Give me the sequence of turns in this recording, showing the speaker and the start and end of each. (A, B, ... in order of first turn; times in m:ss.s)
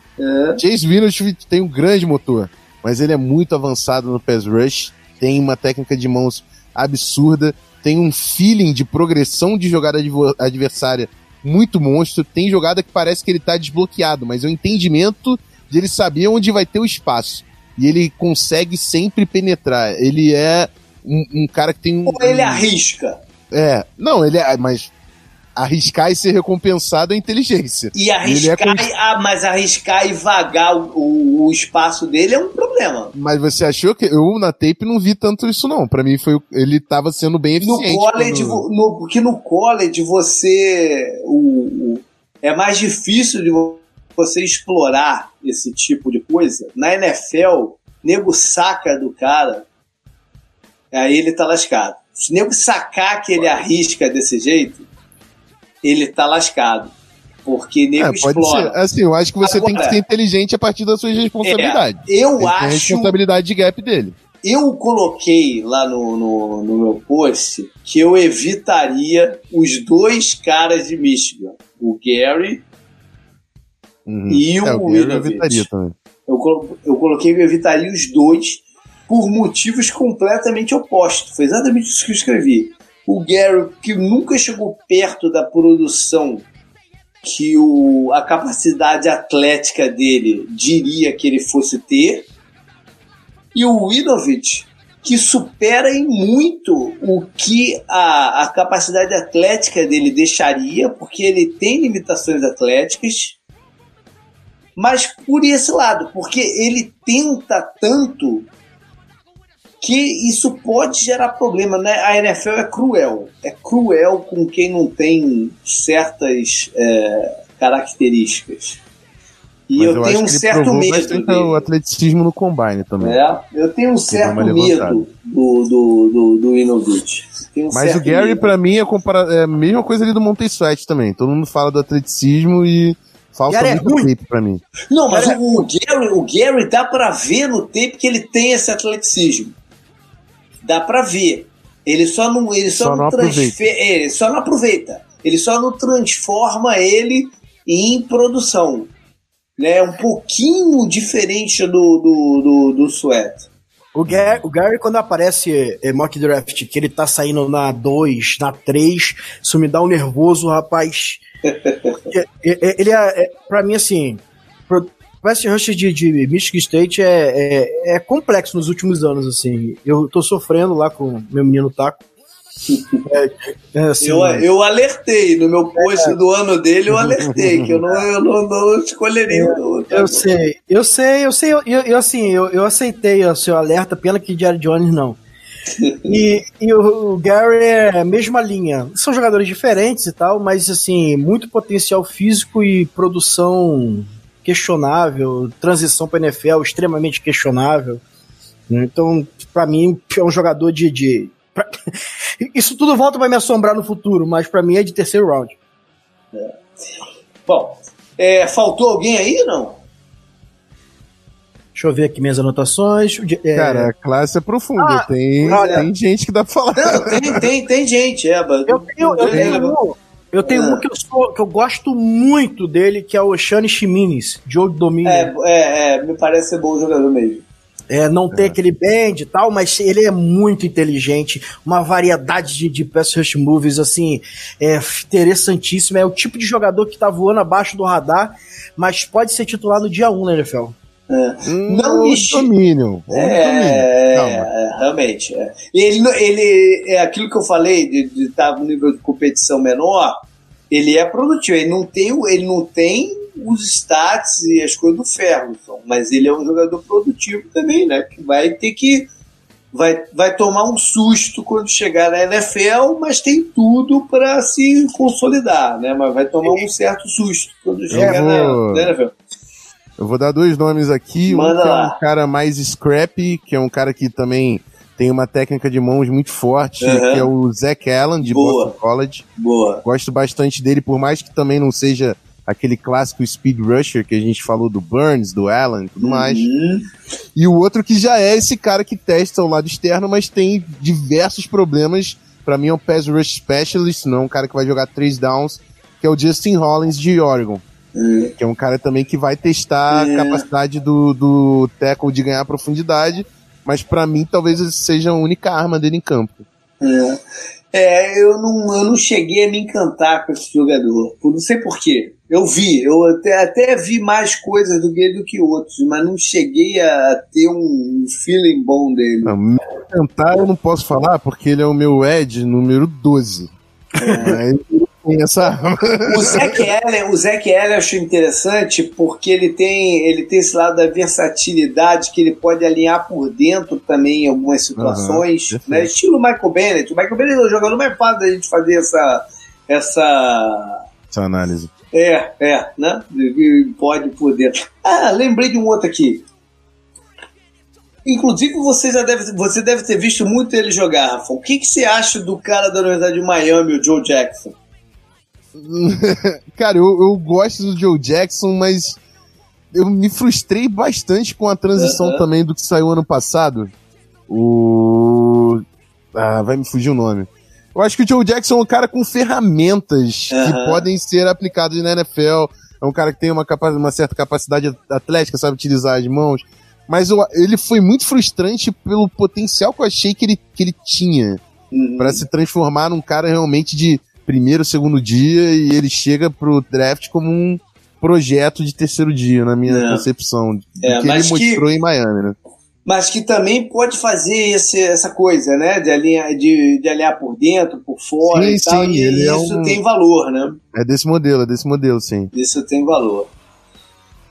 0:00.2-0:00.6 A
0:00.6-0:22.6 B
0:22.0-0:23.2 A
0:23.5-0:24.9 B
0:25.6-0:28.9 B
0:27.9-0:33.1 A
0:33.1-0:38.6 B
0:37.6-0:49.6 A
0:50.9-0:54.9 A
0:55.8-0:56.9 A
0:57.4-0:58.8 A
0:58.0-1:04.2 B
0:59.4-1:00.0 A
1:01.4-1:03.1 A
1:04.4-1:12.6 A
1:14.0-1:15.9 B
1:14.3-1:15.7 A
1:16.3-1:26.4 A
1:27.2-1:32.3 A
1:33.5-1:43.4 A
1:44.8-1:48.5 A
1:49.8-1:58.8 A
1:59.7-2:01.7 A
1:59.8-2:03.2 B
2:03.0-2:08.5 A
2:04.1-2:05.1 B
2:07.7-2:14.6 B
2:13.5-2:14.1 C
2:14.9-2:19.5 A
2:15.1-2:15.4 C
2:20.6-2:28.9 A
2:22.7-2:23.6 B
2:29.6-2:33.5 A
2:33.9-2:41.2 C
2:34.1-2:34.4 B
2:41.6-2:41.9 A
2:42.1-2:52.0 C
2:52.7-2:53.0 A
2:53.0-2:54.4 C
2:54.0-3:00.2 A
2:55.8-2:56.2 C
2:59.3-3:05.2 C
3:05.8-3:06.2 A
3:06.0-3:18.0 C
3:18.7-3:21.7 C
3:22.4-3:25.5 C
3:26.3-3:26.6 A
3:27.4-3:29.8 A
3:31.7-3:33.9 C
3:33.5-3:37.5 B
3:34.8-3:35.8 C
3:35.4-3:35.9 A
3:36.7-3:39.8 A
3:38.7-3:45.3 C
3:39.3-3:39.5 B
3:40.4-3:40.8 A
3:45.0-3:47.4 A
3:47.9-4:00.7 C
3:48.3-3:48.6 B
4:01.1-4:02.5 A
4:01.4-4:04.5 B
4:03.1-4:19.1 A
4:19.7-4:29.1 A
4:27.9-4:28.9 B
4:30.0-4:39.2 B
4:31.2-4:32.0 A
4:36.8-4:37.3 A
4:38.2-4:38.7 A
4:39.4-4:39.8 A
4:39.8-4:46.4 B
4:46.0-4:46.9 A
4:47.4-4:57.6 B
4:57.9-4:58.3 A
4:58.4-5:06.4 B
4:59.9-5:00.4 A
5:06.8-5:07.2 A
5:07.7-5:19.3 A
5:19.2-5:23.5 B
5:24.0-5:24.4 A
5:24.2-5:26.6 B
5:26.0-5:40.8 A
5:34.8-5:35.9 B
5:41.1-5:41.7 B
5:41.9-5:46.2 A
5:48.0-5:54.6 A
5:55.5-5:59.0 B
5:59.7-6:03.7 B
6:01.8-6:02.2 A
6:04.3-6:05.6 B
6:06.1-6:21.4 B
6:10.3-6:10.8 A
6:21.7-6:22.2 A
6:22.0-6:32.4 B
6:29.7-6:30.0 A
6:30.8-6:31.6 A
6:32.8-6:40.6 A
6:38.2-6:39.8 B
6:40.7-6:42.3 B
6:42.3-6:43.3 A